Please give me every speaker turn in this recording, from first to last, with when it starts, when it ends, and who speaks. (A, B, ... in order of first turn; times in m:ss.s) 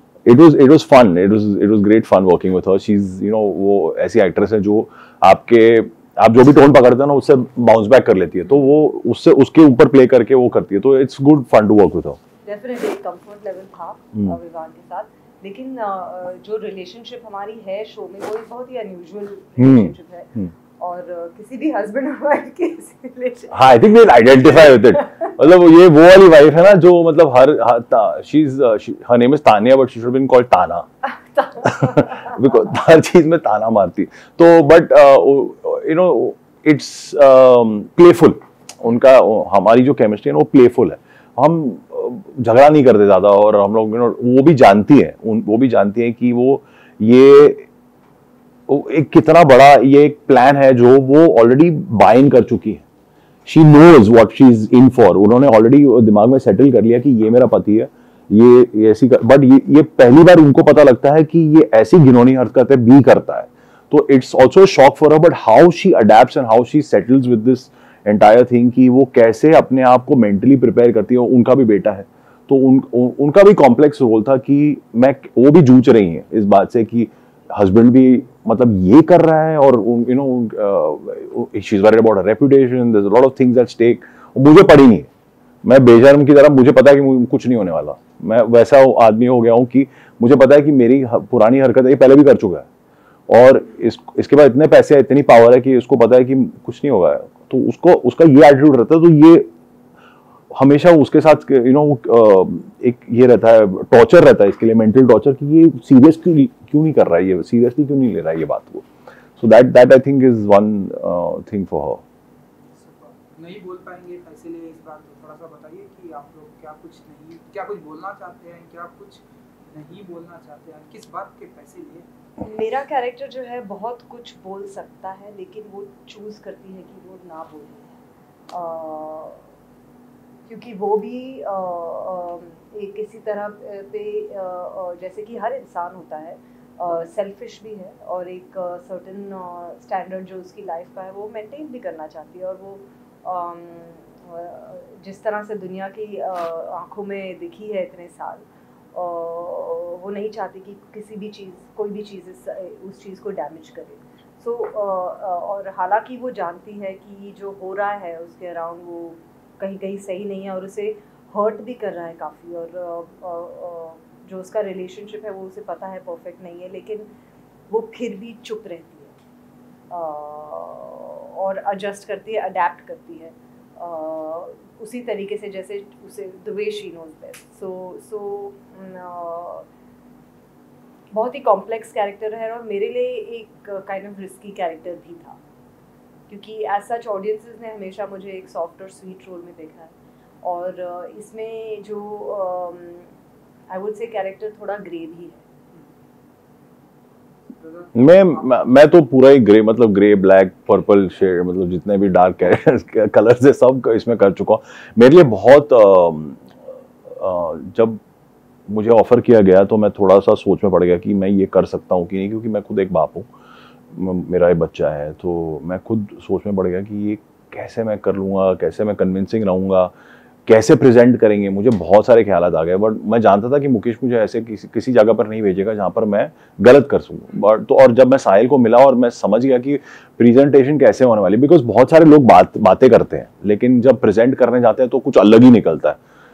0:00.2-0:12.2 A
0:12.4-0:25.2 B
0:19.6-0:20.5 A
0:23.5-0:30.9 A
0:31.3-0:32.3 B
0:31.6-0:47.6 A
0:48.7-0:52.8 A
0:53.4-1:25.1 A
1:25.6-1:32.7 A
1:33.3-1:39.5 A
1:40.5-1:48.8 A
1:49.4-1:52.0 A
1:52.7-2:02.1 C
2:02.4-2:07.9 B
2:08.5-2:09.4 B
2:10.5-2:47.1 B
2:47.7-2:49.1 B
2:49.9-2:59.6 B
3:01.1-3:05.4 B
3:06.3-3:13.1 B
3:13.7-3:15.4 B
3:17.6-3:18.6 C
3:17.9-3:26.4 A
3:27.0-3:28.0 A
3:28.7-3:33.3 A
3:33.9-3:39.9 A
3:40.5-3:56.0 A